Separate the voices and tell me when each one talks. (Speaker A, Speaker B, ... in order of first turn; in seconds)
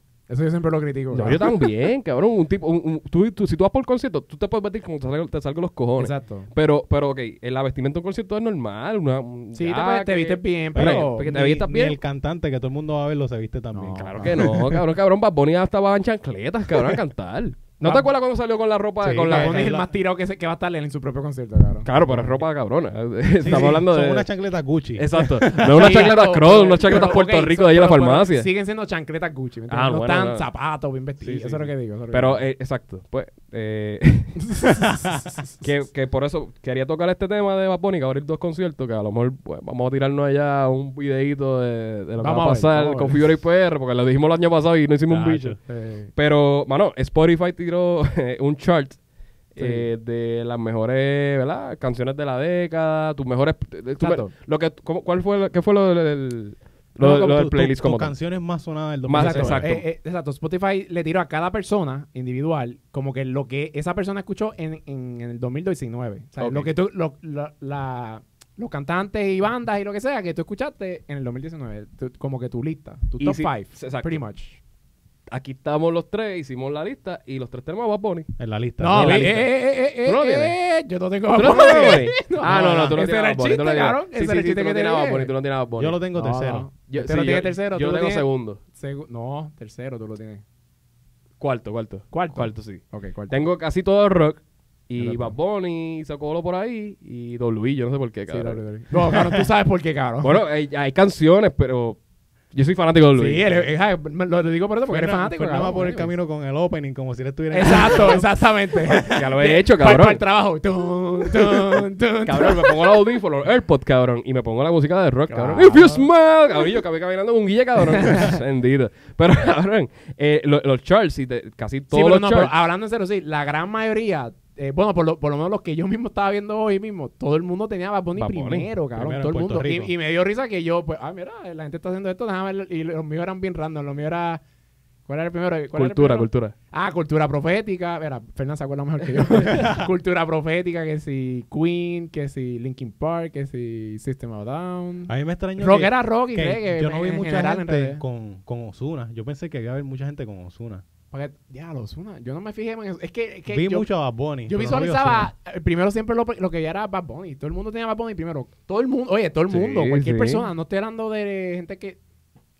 Speaker A: 0.3-1.6, 6.0-6.5, 9.5-11.3, 13.7-14.5, 17.8-18.1, 19.3-22.4, 25.7-32.4, 34.4-35.5, 42.2-43.2, 45.6-46.1, 49.6-49.9, 54.0-54.3, 59.1-74.6, 78.8-85.3, 86.1-90.4, 92.1-93.3, 95.0-95.4, 98.3-100.4, 103.1-106.1, 107.5-113.1, 115.3-116.0, 117.9-118.4, 121.9-134.4, 135.1-148.0, 151.1-153.9, 154.4-162.0
Speaker B: 1.1-12.0, 13.9-19.8, 21.9-24.3, 25.0-28.5, 29.7-30.4, 31.2-34.9, 35.6-45.6, 46.1-49.0, 49.5-58.1, 59.1-59.8, 66.4-66.7, 73.2-74.2, 75.3-78.3, 78.9-79.5, 80.0-80.5, 81.3-86.0, 86.9-88.6, 91.4-98.6, 100.2-102.0, 102.5-103.7, 108.9-110.2, 111.5-122.5, 128.2-128.7, 135.7-136.5, 159.5-160.5
Speaker C: 10.7-14.8, 19.0-19.9, 23.4-26.1, 45.1-45.6, 57.0-59.8, 78.4-79.5, 82.4-83.0, 85.8-86.7, 104.9-108.3, 128.9-129.9, 139.4-139.9, 145.1-150.8, 153.5-155.3